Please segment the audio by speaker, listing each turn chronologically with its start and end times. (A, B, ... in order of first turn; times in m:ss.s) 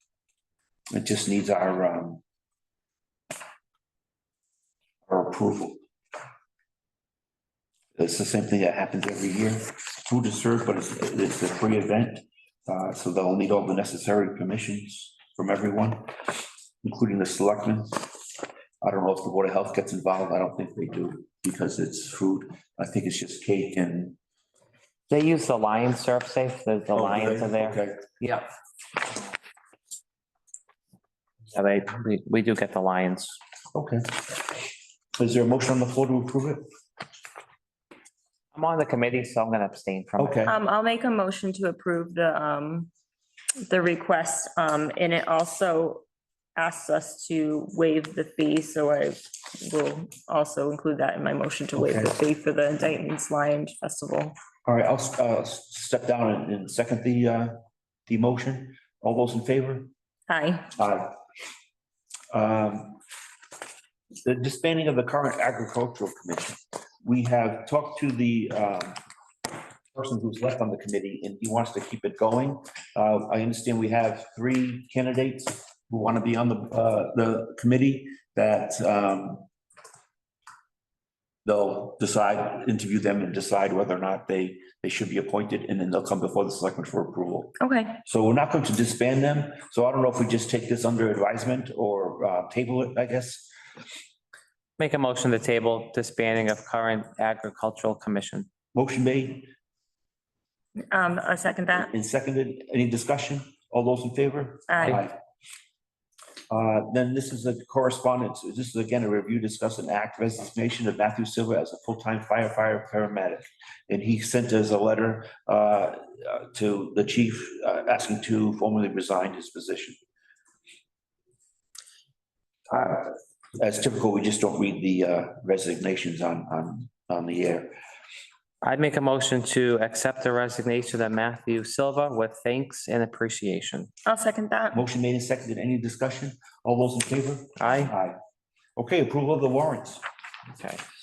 0:00.9-0:02.2 A
0:05.1-0:05.8 A
0:07.9-0:18.2 A
0:18.8-0:24.2 A
0:25.1-0:28.4 B
0:26.9-0:28.1 A
0:31.5-0:33.4 B
0:33.7-0:34.4 A
0:35.2-0:36.6 A
0:38.5-0:40.4 B
0:40.2-0:40.5 A
0:40.4-0:42.9 C
0:43.6-0:46.0 C
0:46.6-0:54.3 C
0:51.8-0:52.1 A
0:54.6-0:57.5 A
0:58.1-0:59.9 A
1:00.3-1:00.7 C
1:00.8-1:01.1 A
1:02.3-1:03.0 A
1:04.2-1:09.0 A
1:09.9-1:19.4 A
1:21.4-1:33.5 A
1:27.6-1:28.0 C
1:34.8-1:38.5 B
1:38.7-1:39.5 A
1:40.9-1:41.9 C
1:41.7-1:45.2 A
1:44.7-1:45.0 C
1:46.5-2:00.0 A
2:02.7-2:07.7 A
2:08.6-2:13.9 B
2:14.0-2:14.8 C
2:14.7-2:18.2 A
2:17.6-2:17.9 B
2:18.8-2:20.0 A
2:20.5-2:20.8 B